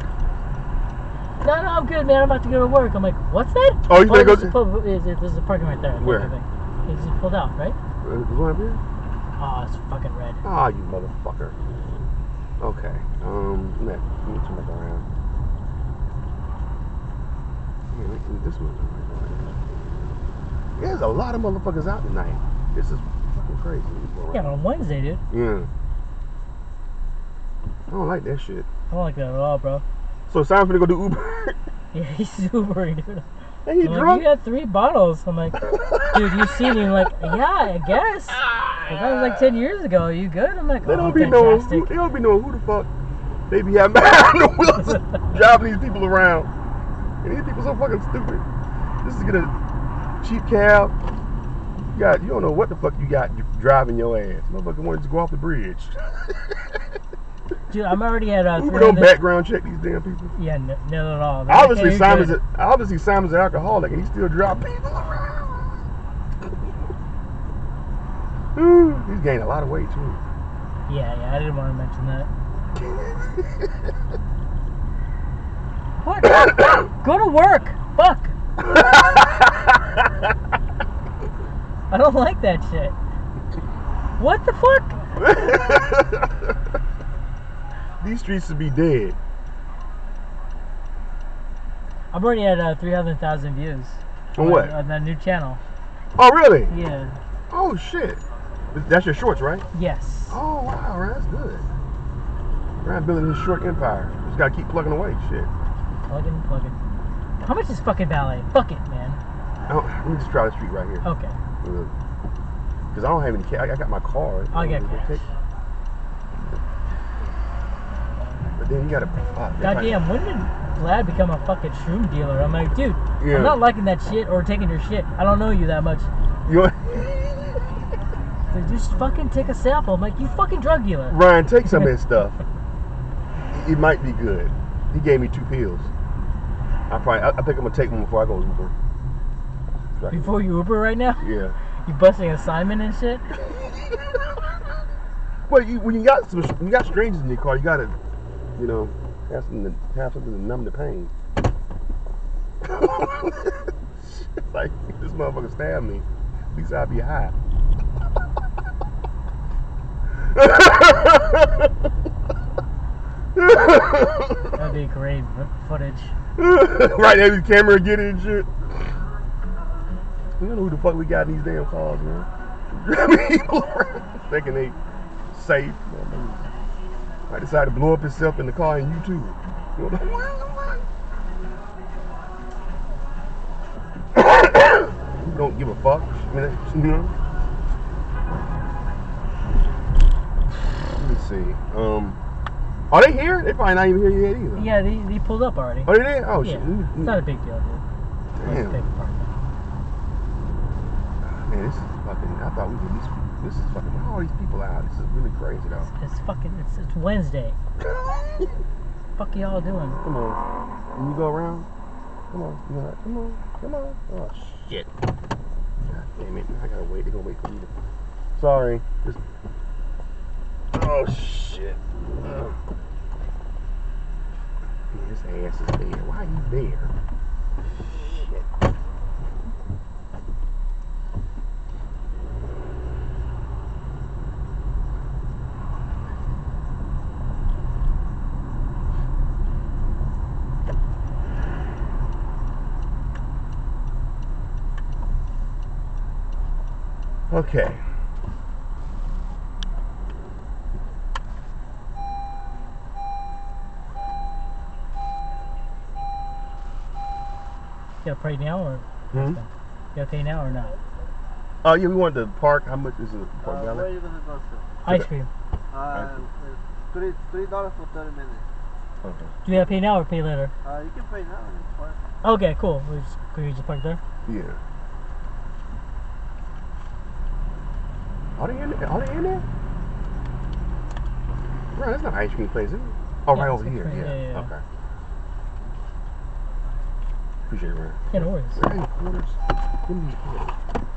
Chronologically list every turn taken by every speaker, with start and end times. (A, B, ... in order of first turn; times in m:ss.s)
0:01.4-0:07.8 A
0:03.9-0:04.6 B
0:06.0-0:06.3 B
0:08.0-0:08.8 B
0:09.4-0:10.4 A
0:10.4-0:11.6 B
0:12.6-0:15.0 B
0:17.9-0:19.8 B
0:20.8-0:24.6 B
0:24.3-0:25.2 A
0:25.3-0:25.7 B
0:27.9-0:28.7 B
0:28.9-0:29.8 A
0:30.3-0:31.6 B
0:31.9-0:33.3 A
0:33.7-0:34.3 B
0:33.8-0:42.0 A
0:35.7-0:36.5 B
0:38.4-0:39.5 B
0:40.8-0:42.9 B
0:43.5-0:46.5 B
0:47.2-0:48.4 B
0:49.0-0:49.6 B
0:50.2-0:50.9 B
0:51.9-0:56.0 B
0:57.7-0:59.2 A
0:58.5-1:00.3 B
1:00.4-1:02.4 A
1:01.5-1:05.6 B
1:08.6-1:10.2 B
1:10.9-1:12.3 A
1:12.8-1:13.7 B
1:16.0-1:18.3 A
1:18.6-1:20.0 B
1:21.9-1:23.0 A
1:24.2-1:25.0 A
1:25.2-1:26.3 B
1:28.0-1:29.2 B
1:32.1-1:35.6 A
1:34.4-1:34.8 B
1:36.2-1:36.7 B
1:36.7-1:37.2 A
1:37.5-1:38.2 B
1:38.7-1:39.6 B
1:39.7-1:40.4 A
1:40.3-1:41.7 B
1:42.8-1:45.5 B
1:46.1-1:46.8 A
1:47.4-1:49.2 A
1:49.7-1:51.0 B
1:51.0-1:51.4 A
1:51.6-1:51.9 B
1:52.9-1:55.3 B
1:54.5-1:55.3 A
1:58.6-2:00.0 B
1:59.6-2:06.1 A
2:03.2-2:03.6 B
2:06.4-2:07.6 B
2:08.5-2:11.2 A
2:11.1-2:12.4 B
2:13.5-2:15.9 B
2:16.9-2:18.7 B
2:20.0-2:20.4 B
2:20.1-2:21.3 A
2:21.2-2:21.6 B
2:21.8-2:23.3 A
2:25.5-2:28.0 B
2:28.6-2:31.1 B
2:32.6-2:37.3 B
2:40.2-2:41.7 B
2:43.4-2:44.6 B
2:44.5-2:46.1 A
2:46.4-2:48.5 B
2:50.4-2:54.8 B
2:55.3-2:56.5 B
2:57.3-3:00.8 B
3:04.2-3:07.1 B
3:10.9-3:12.2 B
3:12.9-3:14.7 B
3:14.6-3:17.8 A
3:15.9-3:17.2 B
3:18.4-3:18.8 B
3:18.4-3:19.4 A
3:21.2-3:25.9 B
3:25.8-3:27.6 A
3:27.8-3:28.5 B
3:29.2-3:30.0 A
3:30.0-3:30.4 B
3:31.0-3:31.7 B
3:32.3-3:34.9 B
3:35.8-3:37.7 B
3:38.4-3:39.2 B
3:40.7-3:42.6 B
3:44.9-3:46.9 B
3:47.8-3:48.5 B
4:07.3-4:07.8 B
4:18.0-4:20.8 A
4:19.1-4:19.4 B
4:21.6-4:24.0 B
4:23.4-4:24.7 C
4:24.8-4:25.3 A
4:25.7-4:28.5 C
4:25.9-4:26.2 B
4:29.0-4:29.4 B
4:29.4-4:30.5 A
4:30.6-4:32.0 C
4:32.2-4:34.0 A
4:34.3-4:34.6 B
4:38.4-4:39.4 B
4:41.8-4:44.6 B
4:43.3-4:44.5 A
4:47.5-4:50.6 B
4:48.1-4:48.7 A